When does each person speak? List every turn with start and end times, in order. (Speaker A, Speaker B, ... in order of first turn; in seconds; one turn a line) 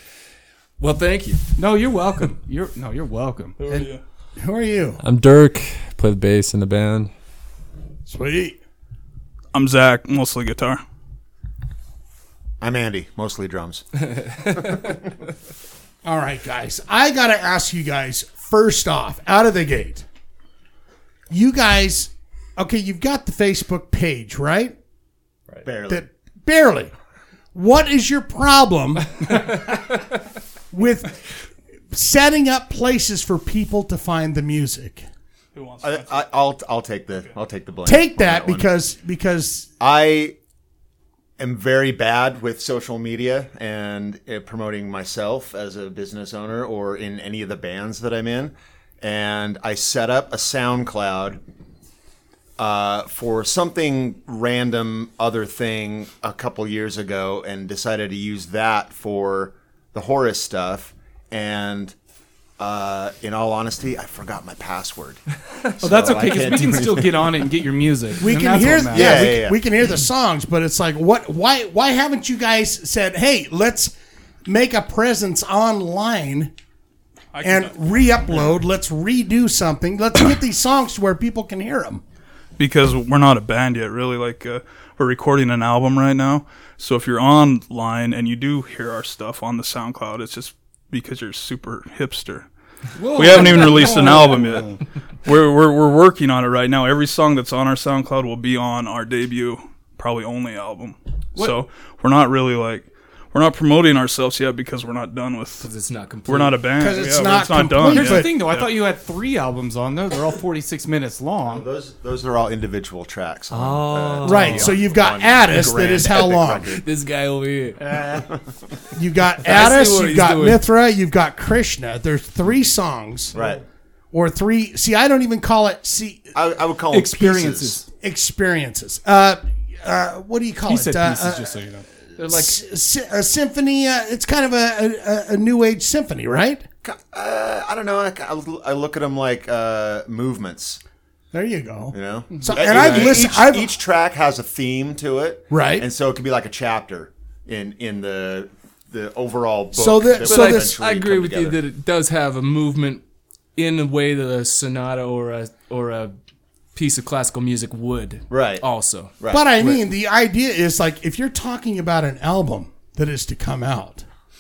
Speaker A: 0.8-1.4
Speaker B: 1.6-3.5
Speaker C: 3.6-4.0
Speaker D: 3.7-5.0
Speaker E: 5.0-7.1
Speaker D: 8.1-8.6
Speaker C: 9.5-10.8
Speaker F: 12.6-15.0
Speaker D: 16.0-20.1
Speaker D: 21.3-24.8
Speaker F: 25.6-26.0
Speaker D: 25.9-26.9
Speaker D: 27.5-29.6
Speaker D: 30.7-31.3
Speaker D: 31.9-35.0
Speaker C: 35.5-36.2
Speaker F: 35.8-38.7
Speaker D: 37.9-39.7
Speaker F: 39.8-40.4
Speaker F: 41.4-51.4
Speaker F: 52.6-62.0
Speaker F: 62.6-65.2
Speaker F: 65.8-67.4
Speaker B: 65.8-69.3
Speaker D: 68.2-73.9
Speaker F: 68.9-69.6
Speaker D: 74.5-76.5
Speaker C: 77.3-77.9
Speaker D: 77.4-82.0
Speaker C: 82.6-92.5
Speaker B: 93.0-94.8
Speaker C: 93.2-94.7
Speaker C: 95.2-105.7
Speaker A: 105.6-106.6
Speaker C: 106.3-108.7
Speaker D: 106.8-108.3
Speaker B: 107.9-111.6
Speaker F: 111.4-116.8
Speaker B: 113.5-114.8
Speaker D: 114.2-116.8
Speaker A: 116.8-117.8
Speaker B: 117.8-118.2
Speaker D: 118.9-123.3
Speaker A: 119.4-120.6
Speaker F: 123.3-123.6
Speaker D: 124.1-126.3
Speaker F: 126.3-127.8
Speaker B: 126.9-127.9
Speaker D: 127.9-131.6
Speaker B: 130.7-132.3
Speaker D: 132.2-136.7
Speaker F: 136.8-140.8
Speaker D: 141.3-143.7
Speaker F: 141.9-151.7
Speaker A: 142.6-143.1
Speaker D: 145.5-145.9
Speaker D: 149.7-150.8
Speaker A: 150.2-153.0
Speaker A: 153.6-156.1
Speaker A: 156.8-159.2
Speaker F: 158.3-158.7
Speaker F: 159.2-159.8
Speaker D: 159.3-164.1